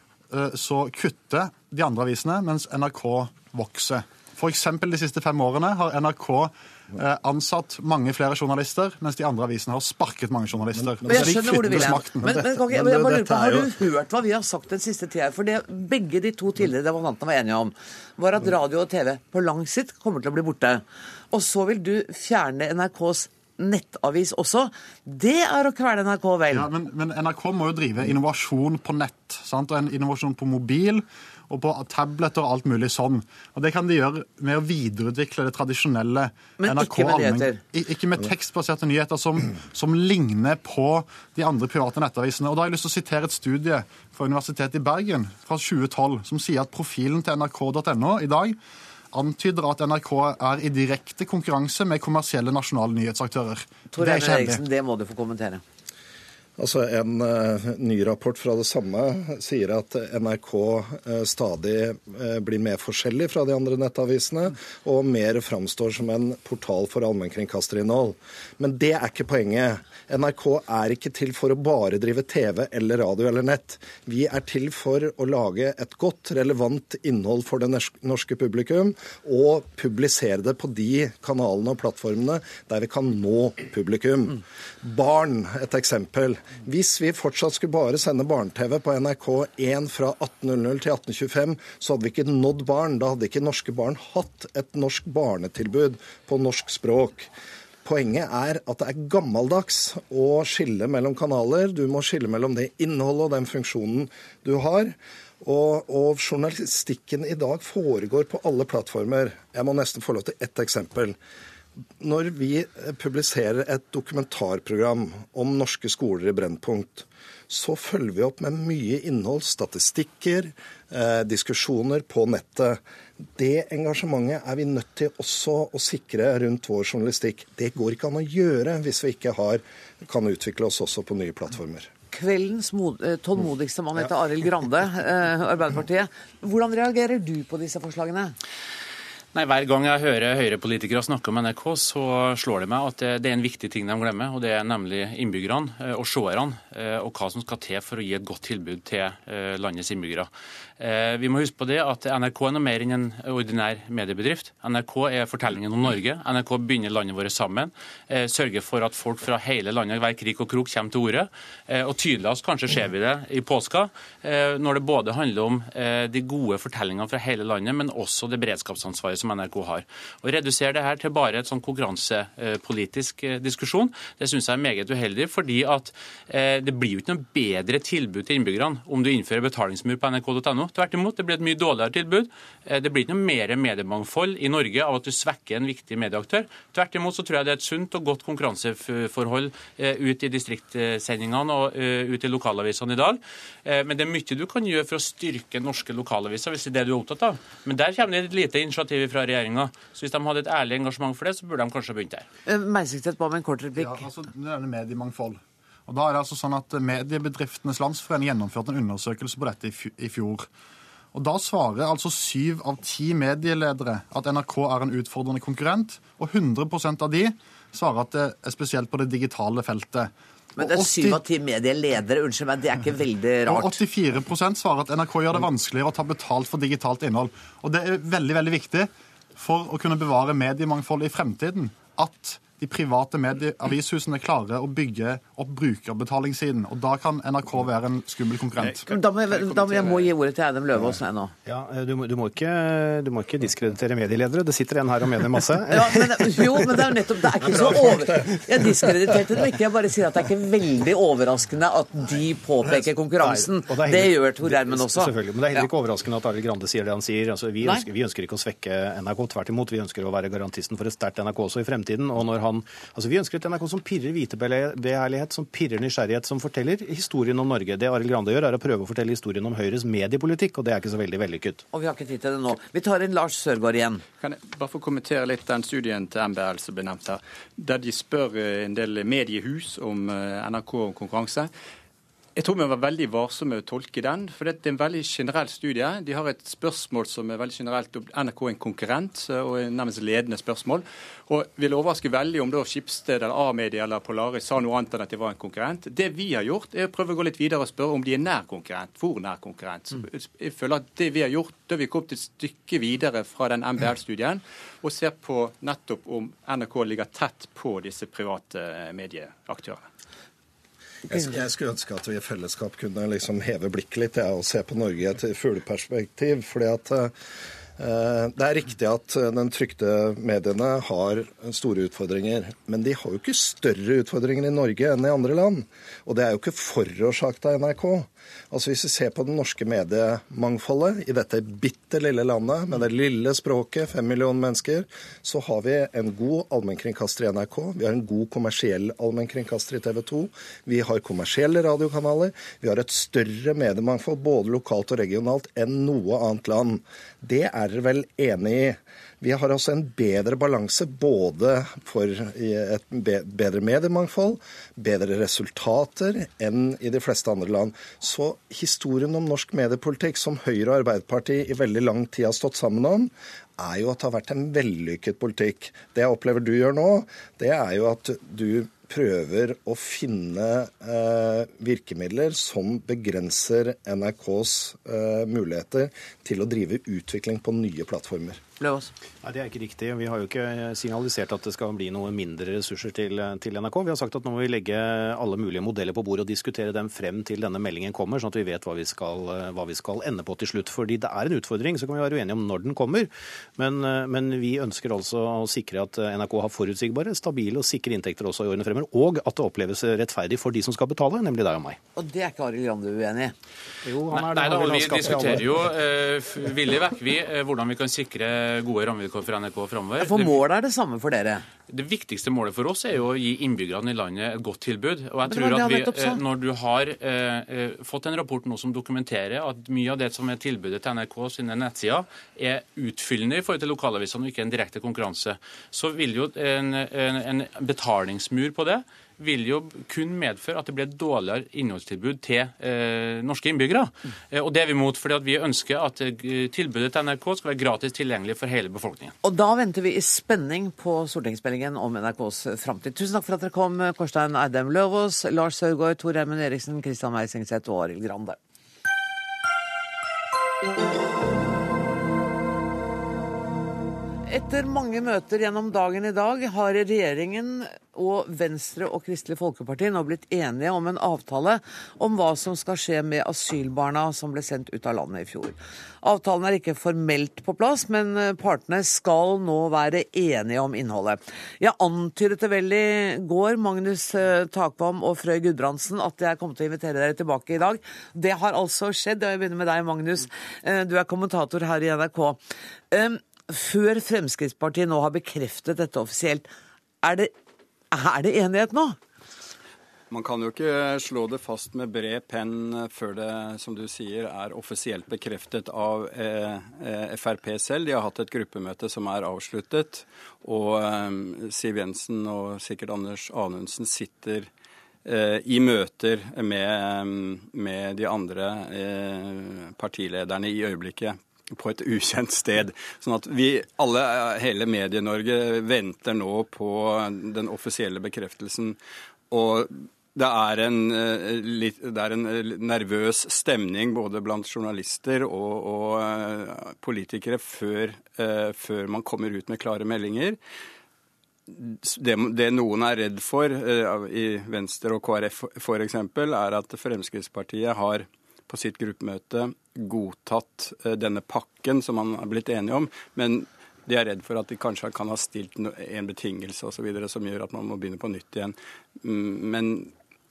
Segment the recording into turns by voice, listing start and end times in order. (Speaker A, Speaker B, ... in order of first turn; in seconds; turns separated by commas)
Speaker A: 0.3-12.5, Speaker B: 11.0-26.7, Speaker C: 11.1-11.4, Speaker A: 13.1-13.4, Speaker A: 26.5-48.6, Speaker B: 36.6-37.6, Speaker A: 49.1-54.6, Speaker B: 53.9-55.6, Speaker C: 56.6-97.3, Speaker C: 97.8-111.2, Speaker C: 112.0-122.8, Speaker C: 123.4-131.9, Speaker B: 132.1-138.4, Speaker D: 139.3-202.3, Speaker B: 202.5-204.1, Speaker A: 203.8-210.5, Speaker A: 211.1-221.2, Speaker B: 220.6-223.8, Speaker A: 223.5-238.9, Speaker B: 238.9-241.3, Speaker E: 241.4-246.9, Speaker B: 245.7-255.7, Speaker E: 247.4-247.9, Speaker E: 253.2-271.6, Speaker B: 271.7-274.0, Speaker F: 274.2-281.5, Speaker F: 282.4-309.9, Speaker C: 311.1-317.1, Speaker C: 317.8-378.4, Speaker B: 378.6-378.9, Speaker E: 379.2-401.8, Speaker B: 402.0-403.3, Speaker E: 403.9-405.7, Speaker D: 404.1-410.3, Speaker B: 410.0-411.4, Speaker D: 411.7-439.1, Speaker B: 415.3-416.2, Speaker B: 439.2-448.4, Speaker B: 454.3-486.5, Speaker B: 487.0-487.3, Speaker B: 487.9-489.0, Speaker G: 490.1-504.5, Speaker G: 505.1-518.8, Speaker G: 519.3-530.4, Speaker G: 531.5-549.9